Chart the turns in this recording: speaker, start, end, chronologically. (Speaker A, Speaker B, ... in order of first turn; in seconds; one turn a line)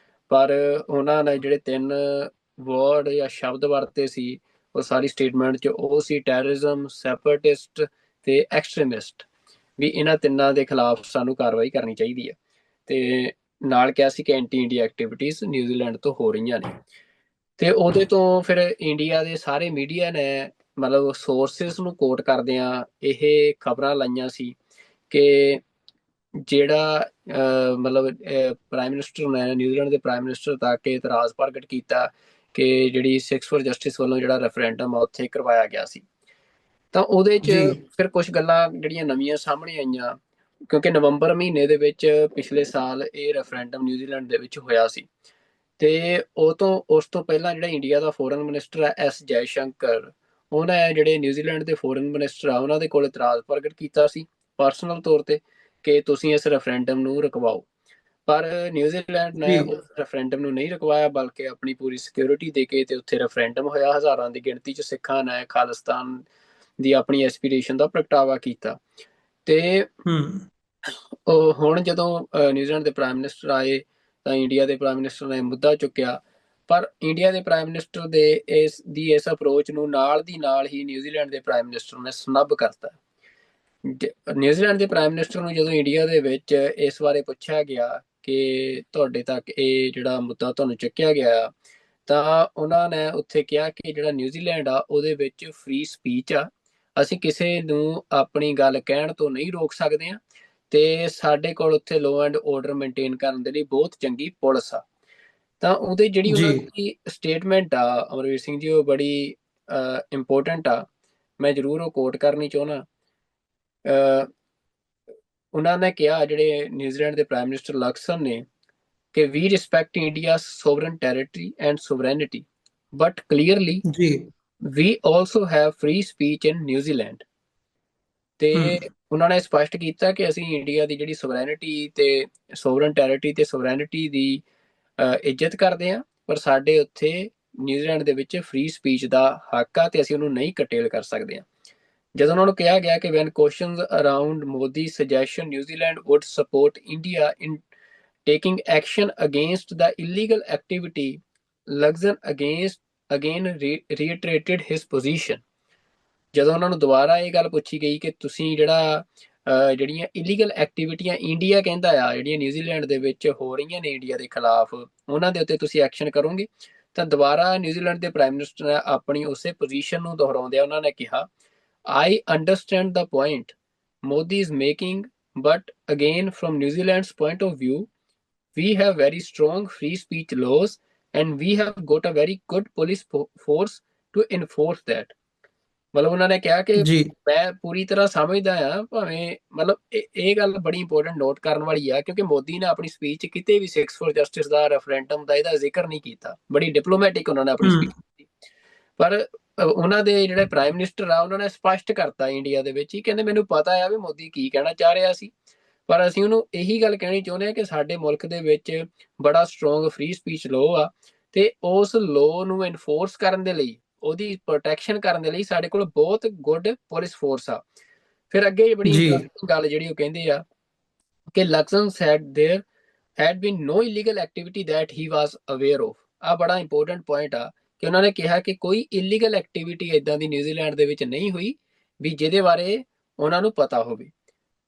Speaker A: 0.3-9.3
Speaker A: 9.8-12.3
Speaker A: 12.9-16.8
Speaker A: 17.6-24.6
Speaker A: 25.1-25.6
Speaker A: 26.5-36.0
Speaker A: 36.9-40.2
Speaker B: 37.5-37.8
Speaker A: 40.7-45.1
Speaker A: 45.8-57.7
Speaker A: 58.3-66.3
Speaker B: 59.4-59.7
Speaker A: 66.8-68.8
Speaker A: 69.5-69.9
Speaker B: 70.1-70.5
Speaker A: 71.3-83.0
Speaker A: 83.8-91.5
Speaker A: 92.1-100.2
Speaker A: 100.7-104.8
Speaker A: 105.6-110.8
Speaker B: 106.3-106.6
Speaker A: 111.4-112.8
Speaker A: 113.9-114.3
Speaker A: 115.5-118.4
Speaker A: 119.1-123.8
Speaker B: 123.9-124.2
Speaker A: 124.7-127.2
Speaker A: 128.4-134.4
Speaker A: 135.0-141.4
Speaker A: 142.2-147.6
Speaker A: 148.3-155.4
Speaker A: 156.3-171.3
Speaker A: 171.9-173.5
Speaker A: 174.1-177.9
Speaker A: 178.6-185.1
Speaker A: 185.9-198.3
Speaker B: 186.8-187.1
Speaker B: 197.6-197.9
Speaker A: 199.0-205.3
Speaker A: 205.9-217.6
Speaker A: 218.3-220.4
Speaker B: 218.9-219.2
Speaker A: 221.3-222.6
Speaker A: 223.2-234.1